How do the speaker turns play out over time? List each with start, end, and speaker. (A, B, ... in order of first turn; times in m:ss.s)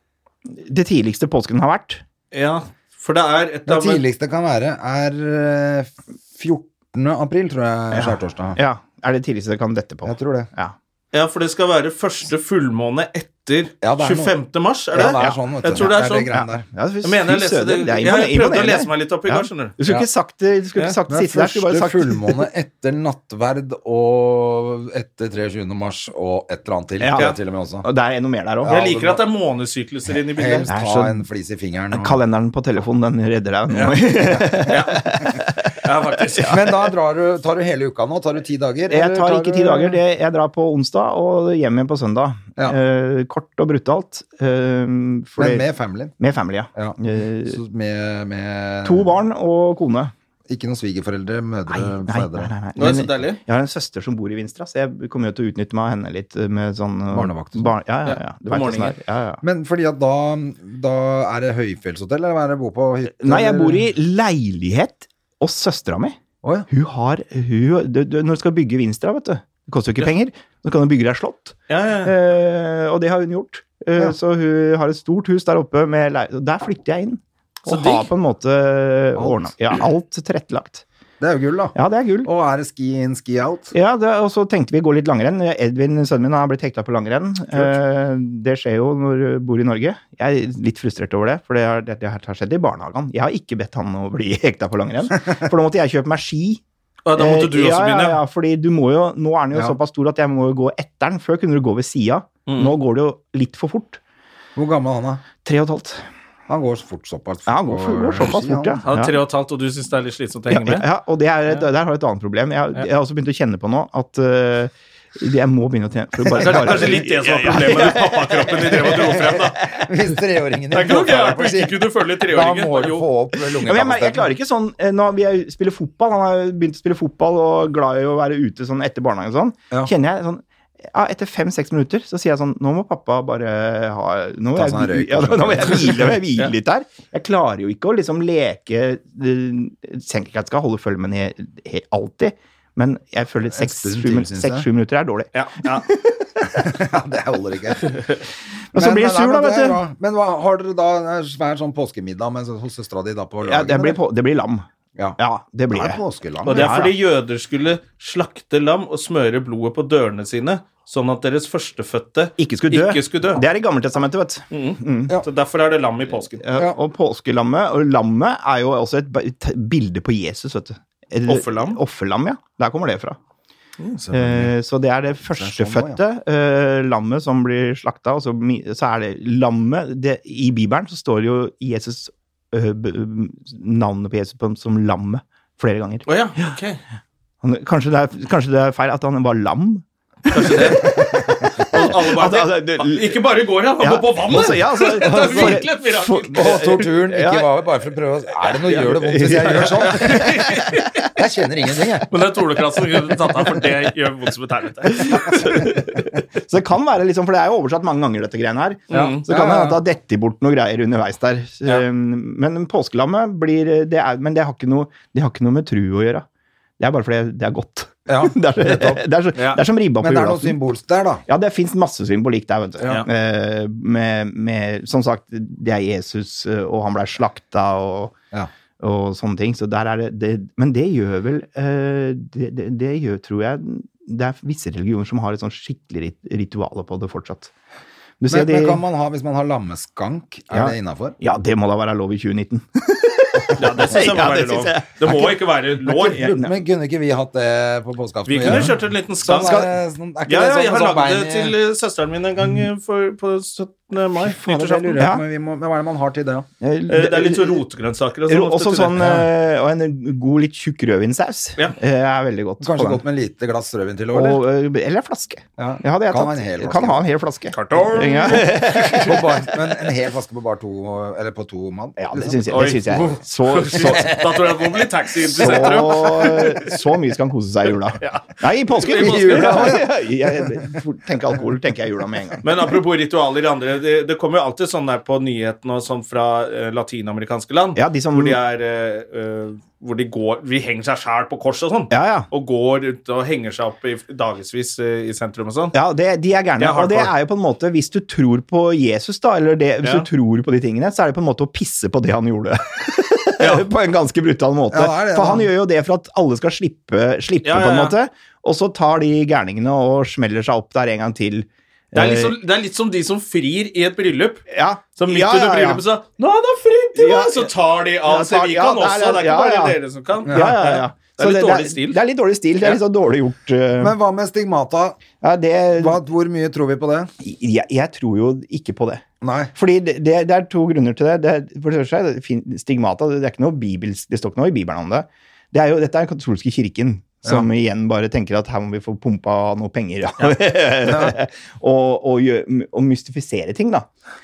0:00.5-0:02.0 A
0:02.3-0:04.0 B
0:03.7-0:08.6 C
0:07.9-0:10.8 A
0:10.0-0:10.5 C
0:11.1-0:16.3 B
0:13.8-0:14.3 C
0:14.9-0:16.7 C
0:15.0-0:15.4 A
0:16.3-0:22.5 A
0:17.0-0:19.7 B
0:21.1-0:27.9 C
0:27.0-0:28.8 A
0:28.6-0:29.2 C
0:28.7-0:30.7 B
0:30.4-0:32.2 C
0:30.7-0:31.2 A
0:31.9-0:35.7 A
0:34.2-0:34.7 C
0:34.7-0:35.2 B
0:35.8-0:36.7 B
0:36.5-0:40.0 C
0:38.9-0:45.7 A
0:45.4-0:46.1 C
0:46.2-0:47.6 A
0:46.8-0:49.1 C
0:48.8-0:50.1 A
0:50.5-0:52.5 C
0:51.7-0:59.4 A
0:52.8-0:53.4 B
0:57.1-0:57.7 C
0:58.1-0:59.0 B
0:59.4-1:03.8 C
1:03.1-1:06.2 A
1:06.4-1:06.7 C
1:06.7-1:20.8 A
1:11.7-1:12.1 B
1:17.7-1:18.1 B
1:19.2-1:19.5 C
1:21.2-1:23.7 C
1:21.8-1:22.3 A
1:23.7-1:36.6 A
1:37.0-1:38.2 B
1:37.2-1:44.0 A
1:42.5-1:42.7 B
1:44.6-1:45.2 C
1:45.4-1:46.0 A
1:46.5-1:48.8 C
1:47.5-1:49.2 A
1:48.9-1:50.9 B
1:50.5-1:59.2 A
1:56.3-1:59.6 B
1:56.4-1:57.0 C
1:59.0-2:04.3 C
2:00.7-2:03.1 B
2:03.6-2:26.2 A
2:14.5-2:16.2 C
2:23.5-2:24.7 C
2:25.3-2:25.9 B
2:26.5-2:27.9 C
2:27.9-2:28.2 B
2:28.7-2:29.8 A
2:28.7-2:34.0 C
2:33.4-2:34.7 A
2:35.2-2:36.0 A
2:35.7-2:36.8 C
2:36.4-2:43.4 B
2:36.5-2:36.9 A
2:42.4-2:45.2 A
2:44.5-2:46.4 B
2:46.4-2:53.2 A
2:51.3-2:51.8 B
2:54.0-2:54.5 C
2:54.1-3:06.5 A
2:55.2-2:56.0 C
3:06.1-3:06.8 B
3:07.4-3:11.0 A
3:10.3-3:10.9 B
3:10.8-3:11.6 C
3:11.6-3:16.8 B
3:11.6-3:13.2 A
3:13.8-3:17.5 A
3:15.0-3:15.6 C
3:16.3-3:22.1 C
3:18.7-3:20.8 A
3:19.2-3:21.0 B
3:22.1-3:25.6 B
3:24.9-3:36.2 A
3:28.9-3:29.2 B
3:28.9-3:29.8 C
3:36.8-3:40.6 A
3:38.1-3:39.0 C
3:39.4-3:39.6 B
3:40.0-3:41.2 C
3:41.3-3:48.1 A
3:48.8-3:57.5 A
3:58.2-3:58.8 A
3:58.3-4:01.2 C
4:00.5-4:06.5 A
4:03.6-4:06.3 B
4:06.0-4:11.6 C
4:08.3-4:09.6 B
4:08.4-4:08.7 A
4:09.3-4:09.7 A
4:10.3-4:15.0 B
4:14.4-4:16.5 C
4:14.9-4:15.2 A
4:16.6-4:17.6 A
4:16.9-4:19.2 B
4:18.3-4:23.0 A
4:22.6-4:24.4 C
4:24.1-4:29.2 A
4:25.6-4:27.0 C
4:27.5-4:29.2 B
4:28.3-4:32.4 C
4:32.0-4:34.2 A
4:32.5-4:36.8 B
4:33.8-4:36.0 C
4:35.4-4:42.5 A
4:38.0-4:39.8 B
4:38.9-4:40.7 C
4:42.4-4:55.8 B
4:47.8-4:48.4 A
4:51.9-4:52.3 A
4:55.7-5:12.4 A
4:56.6-4:57.1 B
5:03.4-5:03.7 B
5:04.7-5:05.5 C
5:07.4-5:08.0 B
5:11.9-5:14.4 B
5:14.5-5:15.8 A
5:15.0-5:22.0 B
5:17.0-5:17.5 A
5:18.0-5:24.0 A
5:20.3-5:20.6 C
5:23.8-5:25.0 C
5:25.2-5:26.0 A
5:25.8-5:27.1 C
5:27.2-5:29.0 A
5:29.2-5:29.5 C
5:29.5-5:43.9 A
5:40.9-5:41.1 C